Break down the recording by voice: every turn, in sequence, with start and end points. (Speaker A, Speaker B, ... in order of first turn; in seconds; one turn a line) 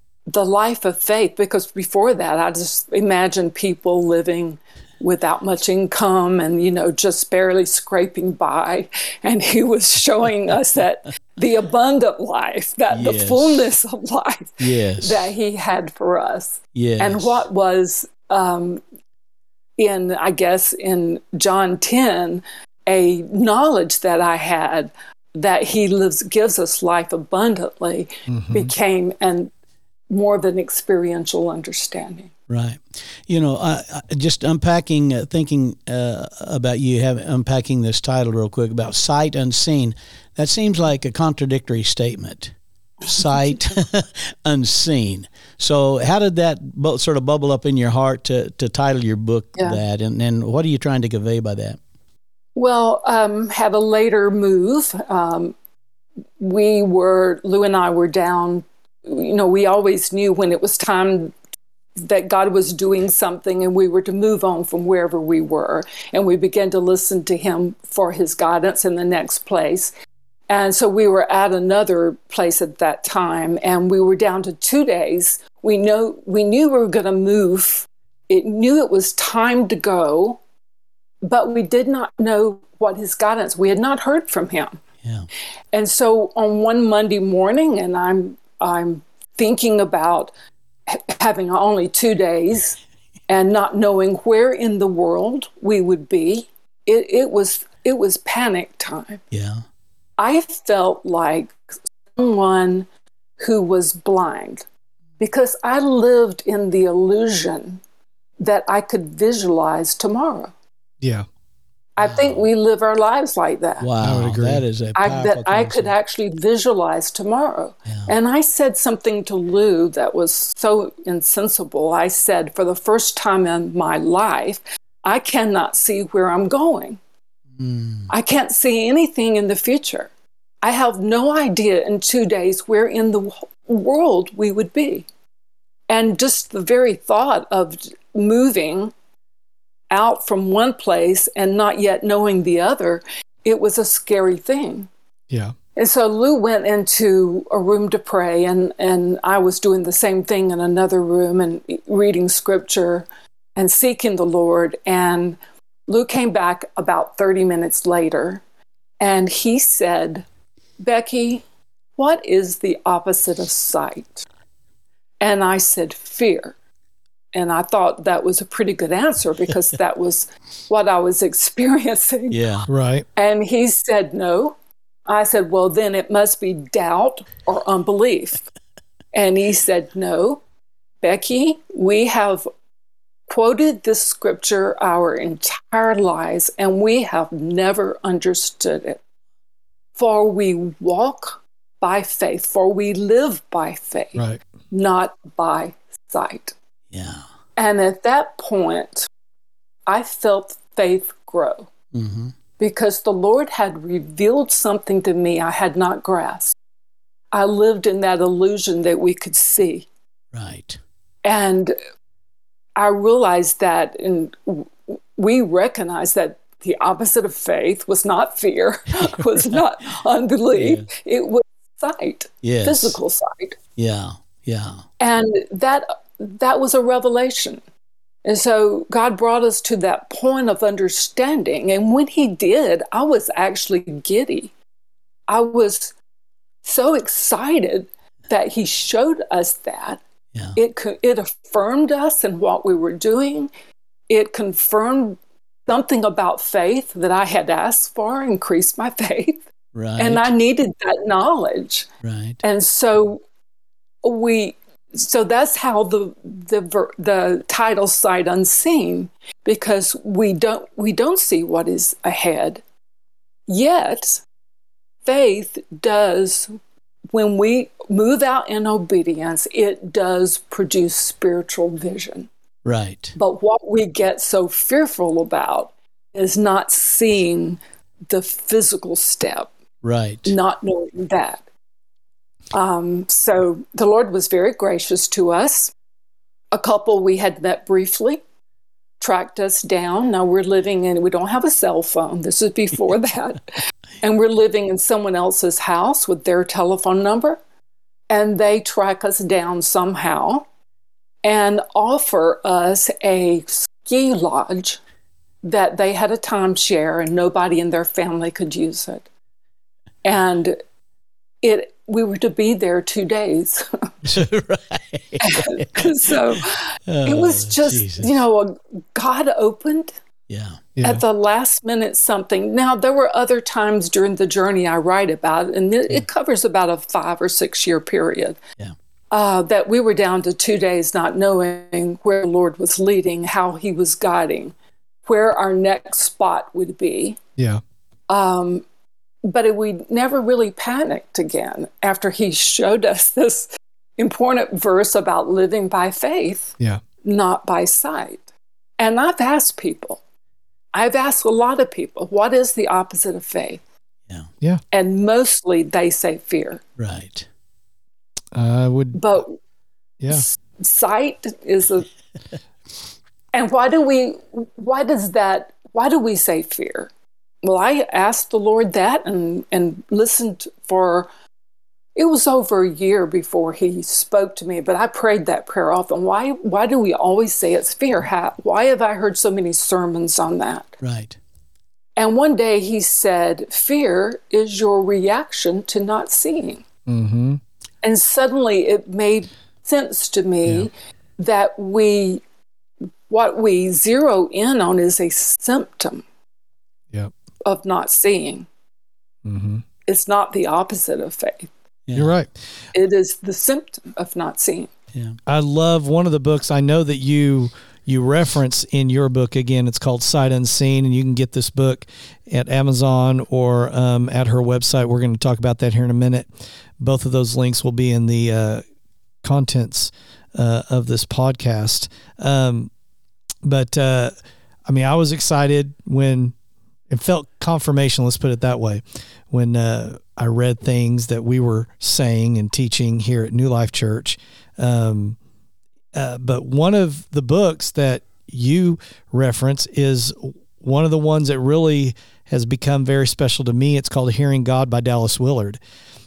Speaker A: 0.3-18.8
Speaker B: 12.9-13.7
Speaker B: 14.6-15.3
Speaker B: 16.8-17.4
Speaker A: 19.8-29.5
Speaker C: 28.3-28.7
Speaker A: 30.1-32.3
Speaker B: 32.5-42.5
Speaker B: 43.0-51.8
Speaker A: 52.6-55.5
Speaker A: 56.4-61.3
Speaker A: 62.0-69.9
Speaker A: 70.5-80.4
Speaker A: 81.2-84.8
Speaker A: 85.7-90.3
Speaker A: 90.9-92.8
Speaker A: 93.3-99.2
Speaker B: 99.3-99.6
Speaker A: 100.2-101.6
Speaker A: 102.2-102.9
Speaker A: 103.4-104.7
Speaker A: 105.2-107.8
Speaker A: 108.4-110.5
Speaker A: 112.0-113.9
Speaker B: 112.0-112.4
Speaker B: 113.8-115.9
Speaker C: 114.0-114.6
Speaker A: 115.0-127.0
Speaker B: 127.6-128.1
Speaker A: 128.1-130.1
Speaker A: 130.6-135.1
Speaker A: 135.9-138.9
Speaker A: 139.9-144.9
Speaker A: 145.8-158.4
Speaker A: 159.0-160.2
Speaker A: 160.8-161.4
Speaker A: 162.0-164.3
Speaker A: 165.2-166.6
Speaker A: 167.3-172.4
Speaker B: 172.3-172.7
Speaker C: 172.7-173.1
Speaker A: 173.2-174.6
Speaker A: 175.1-178.5
Speaker A: 179.1-180.4
Speaker A: 181.0-182.5
Speaker A: 183.3-189.0
Speaker A: 190.0-196.6
Speaker C: 194.2-194.4
Speaker B: 196.9-197.2
Speaker A: 197.6-199.1
Speaker A: 199.9-201.7
Speaker B: 201.9-202.3
Speaker A: 202.6-206.6
Speaker A: 207.3-209.9
Speaker B: 210.3-210.8
Speaker A: 211.2-211.8
Speaker A: 212.8-223.6
Speaker B: 220.6-220.9
Speaker B: 222.4-223.0
Speaker B: 223.8-224.8
Speaker A: 225.0-227.6
Speaker A: 228.2-234.5
Speaker A: 235.3-235.9
Speaker A: 236.6-240.0
Speaker A: 240.6-243.5
Speaker A: 244.1-249.4
Speaker B: 249.8-250.3
Speaker A: 250.0-251.9
Speaker B: 252.0-252.4
Speaker A: 252.4-253.2
Speaker A: 254.0-262.6
Speaker A: 263.5-264.2
Speaker A: 265.1-266.5
Speaker A: 267.1-272.3
Speaker B: 272.6-273.1
Speaker A: 273.2-279.5
Speaker B: 279.8-280.3
Speaker A: 280.3-281.4
Speaker A: 282.5-285.7
Speaker A: 286.5-288.2
Speaker A: 289.0-297.4
Speaker A: 298.1-300.4
Speaker A: 301.2-304.8
Speaker A: 305.4-309.1
Speaker A: 310.0-310.6
Speaker A: 311.4-313.9
Speaker B: 314.1-316.1
Speaker A: 315.2-320.0
Speaker B: 316.9-318.2
Speaker B: 320.3-320.6
Speaker C: 320.8-321.0
Speaker A: 320.8-328.4
Speaker A: 329.1-334.5
Speaker A: 335.1-337.2
Speaker A: 338.1-338.6
Speaker A: 339.2-348.2
Speaker A: 348.8-350.0
Speaker A: 350.7-353.6
Speaker A: 354.7-356.6
Speaker B: 356.8-357.3
Speaker C: 358.3-359.1
Speaker A: 359.0-359.4
Speaker A: 360.1-361.9
Speaker A: 363.3-366.9
Speaker A: 367.4-371.1
Speaker A: 371.9-380.7
Speaker B: 380.8-381.2
Speaker A: 382.0-386.6
Speaker C: 386.9-387.4
Speaker A: 387.8-392.2
Speaker A: 393.1-396.0
Speaker A: 397.4-398.5
Speaker C: 399.2-399.6
Speaker A: 399.9-401.5
Speaker B: 401.9-402.1
Speaker C: 402.0-402.3
Speaker A: 402.7-404.7
Speaker C: 405.3-416.3
Speaker C: 416.8-418.6
Speaker C: 419.2-422.7
Speaker C: 423.4-424.1
Speaker C: 424.7-426.3
Speaker C: 426.9-435.2
Speaker C: 435.9-445.6